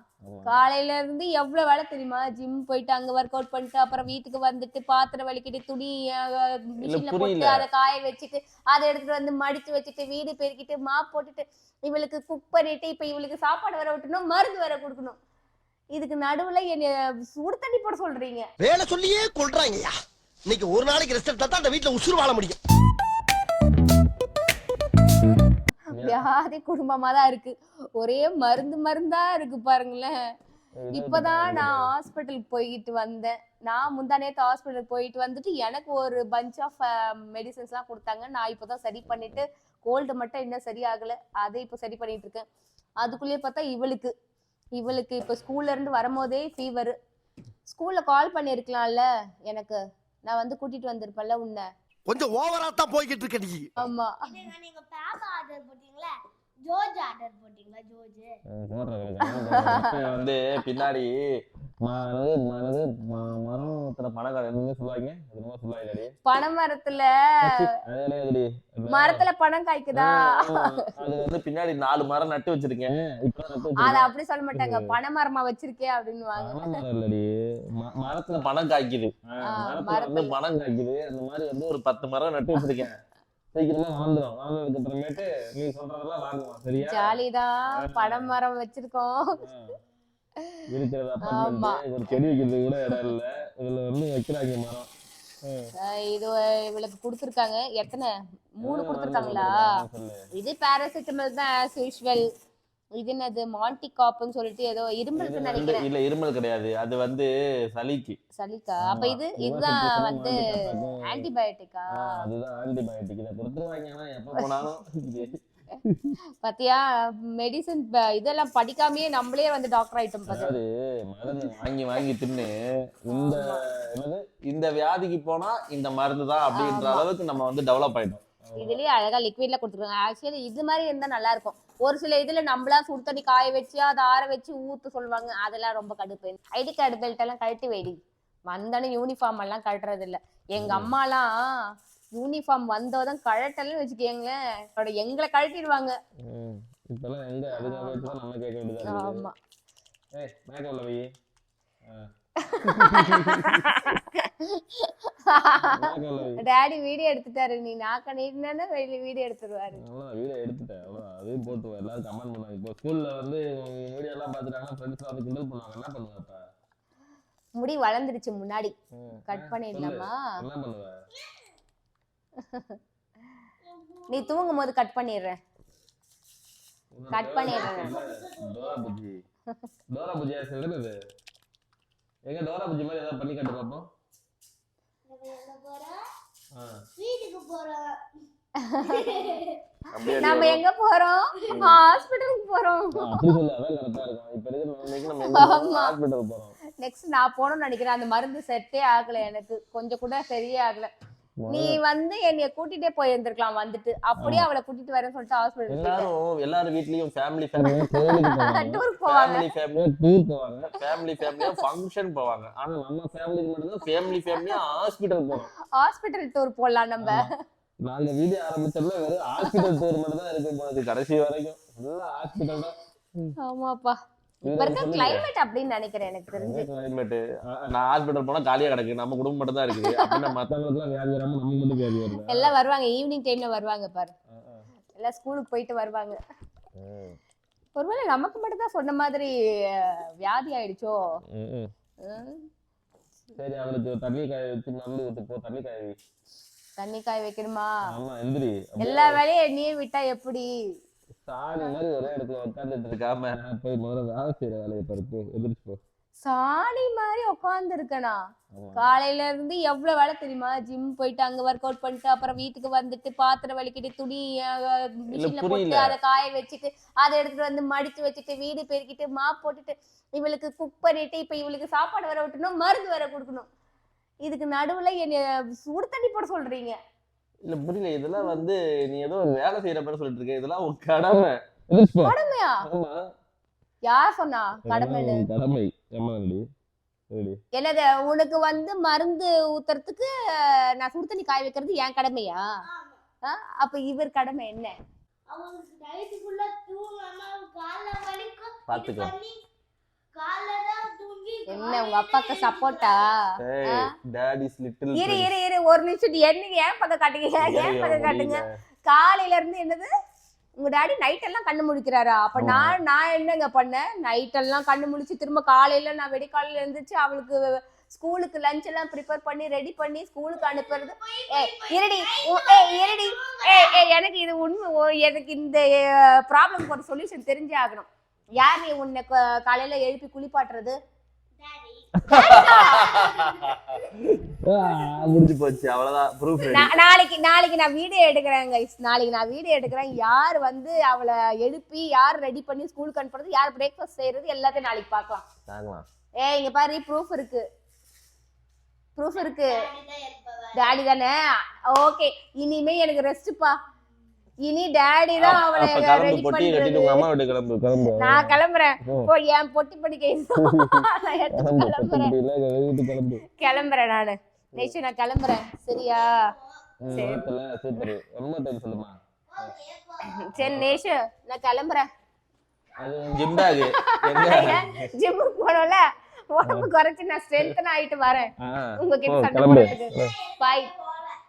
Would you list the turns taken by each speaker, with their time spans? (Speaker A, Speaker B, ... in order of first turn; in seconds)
Speaker A: 0.2-0.6, 6.8-7.7, 25.9-26.2, 30.8-31.9, 58.5-61.1, 61.8-66.1, 67.4-69.2, 69.9-74.0, 74.5-74.9, 76.4-82.9, 83.5-87.2, 87.7-88.3, 89.4-89.8, 90.7-94.9, 95.4-95.7, 98.6-100.2, 105.2-108.2, 108.8-111.3, 111.9-116.2, 120.3-128.8, 140.6-140.9, 146.2-149.3, 150.2-151.1, 152.6-153.7, 155.6-156.4, 159.7-166.4, 168.9-170.9, 176.9-179.2, 179.9-180.9, 182.3-183.8, 186.5-186.8, 189.9-190.6, 191.5-191.8, 192.9-196.6, 201.4-201.8, 204.2-204.5, 205.7-215.5, 217.0-217.3, 217.8-223.3, 224.4-225.3, 226.3-232.5, 234.3-234.7, 236.8-237.2, 241.3-241.7, 243.3-245.9, 247.9-249.2, 251.2-255.8, 258.5-258.9, 265.1-266.0, 277.4-283.1, 284.6-286.4, 287.1-287.4, 298.7-299.1, 303.4-305.3, 307.4-308.5, 312.4-312.8, 332.1-336.7, 345.5-345.8, 355.2-359.1, 360.4-363.2, 366.8-369.5, 370.4-370.8, 372.8-374.9, 376.4-376.7, 378.4-380.1
Speaker B: 0.5-15.2, 15.9-18.4, 26.0-30.1, 30.9-42.4, 43.0-44.1, 44.8-46.9, 47.7-51.6, 53.8-54.2, 59.3-59.9, 66.2-67.6, 68.9-70.8, 73.8-76.8, 79.5-80.3, 86.8-89.4, 91.2-91.8, 95.8-99.7, 100.3-102.2, 103.0-105.8, 108.4-112.2, 114.4-114.6, 116.4-116.8, 117.4-120.6, 123.1-123.6, 126.5-127.1, 128.6-138.0, 138.5-141.3, 142.2-145.9, 147.5-148.2, 148.8-149.3, 152.4-159.8, 167.6-168.7, 169.3-170.3, 172.4-172.8, 174.1-175.4, 177.1-177.9, 188.6-189.4, 190.1-193.2, 195.2-195.9, 196.8-200.9, 201.5-206.1, 207.6-209.5, 211.2-211.6, 214.2-214.6, 215.7-217.3, 219.4-219.8, 223.4-224.0, 224.5-226.7, 229.8-230.2, 232.2-234.1, 235.0-236.2, 237.7-241.0, 242.0-242.5, 246.8-247.7, 248.8-250.5, 256.2-258.2, 258.8-273.5, 274.2-276.8, 282.0-282.6, 283.8-285.2, 287.5-292.4, 293.2-294.7, 301.5-303.1, 304.9-309.9, 310.6-330.7, 332.1-333.0, 336.5-345.2, 346.2-347.4, 348.9-349.6, 350.6-351.1, 351.7-353.5, 354.4-357.1, 358.0-362.1, 363.4-366.3, 366.9-367.2, 370.1-371.9, 373.2-380.7
Speaker C: 18.6-19.9, 20.5-22.6, 52.1-53.7
Speaker D: 54.2-58.3, 173.6-174.4, 177.3-178.9, 185.1-186.0, 187.0-188.0, 188.8-189.6, 292.6-293.0, 295.3-299.4, 300.1-303.1, 320.4-323.9, 331.4-333.8, 349.1-350.7, 366.0-366.6, 369.3-370.1, 379.7-381.2